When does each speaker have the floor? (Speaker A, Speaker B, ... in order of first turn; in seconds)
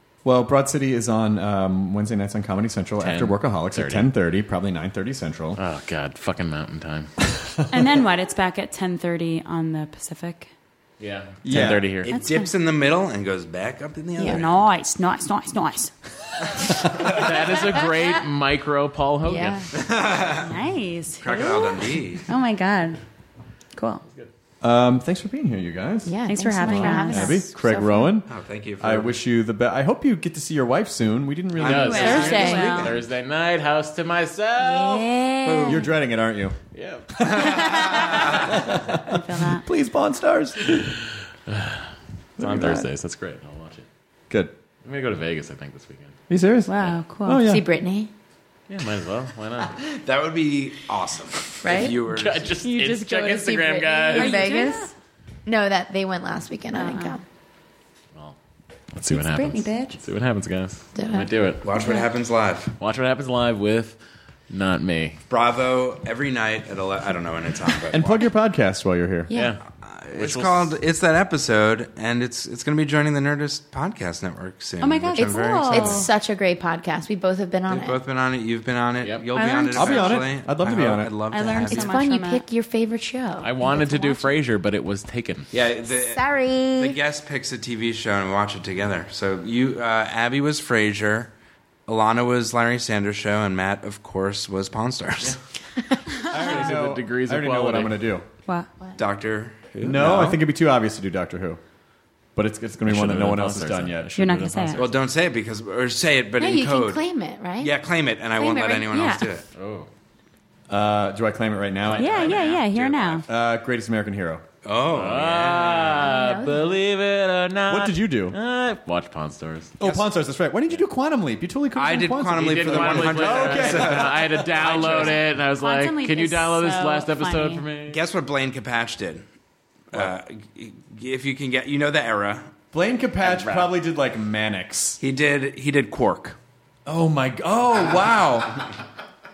Speaker A: 0.2-5.6, 11.4-11.9, 24.6-32.9, 35.6-36.6, 37.1-40.9, 42.4-42.9, 46.3-47.6, 67.9-69.3, 79.7-81.1, 96.3-98.3, 99.8-101.6, 102.3-104.6, 110.7-112.4, 113.3-114.4, 117.7-118.4, 119.8-124.9, 132.7-135.0, 136.8-138.7
Speaker B: 3.0-4.1, 5.6-7.1, 11.0-12.1, 16.9-19.7, 31.6-35.1, 36.7-38.1, 41.5-41.9, 42.4-43.9, 44.8-46.2, 48.7-49.8, 51.9-54.5, 58.9-61.6, 62.8-64.0, 64.5-65.2, 69.3-70.7, 79.0-79.3, 83.4-85.5, 96.2-98.1, 99.7-100.3, 102.8-104.9, 109.5-109.9, 111.8-113.2, 114.9-119.7, 122.3-128.0, 133.2-133.7
Speaker C: 7.7-10.5, 12.1-12.5, 14.2-15.9, 20.2-23.0, 23.7-24.0, 26.3-28.1, 31.7-32.9, 34.7-35.8, 39.0-39.6, 46.7-47.4, 52.6-53.1, 54.1-54.9, 56.7-57.2, 59.1-60.0, 74.8-76.1, 79.3-80.1, 81.3-82.4, 83.7-84.0, 104.2-104.8, 112.0-113.2, 124.7-127.6
Speaker D: 12.1-14.5, 19.7-20.5, 21.2-22.3, 28.3-29.1, 31.6-32.9, 50.0-52.5, 61.6-62.8, 65.3-68.3, 69.7-76.0, 77.7-81.9, 85.5-86.2, 86.8-91.3, 91.9-95.3, 99.0-100.3, 104.7-107.0, 107.6-109.5, 114.6-116.0, 119.8-120.1, 121.7-125.2, 127.8-129.2, 129.9-132.5, 135.0-136.4
Speaker E: 19.2-19.7, 26.1-28.1, 32.0-32.8, 34.6-35.8, 47.4-48.1, 51.6-52.0, 52.8-54.9, 55.4-57.2, 61.0-61.3, 69.3-69.5, 75.2-78.0, 81.7-84.2, 85.9-87.0, 106.4-107.7, 108.4-109.3, 115.9-116.8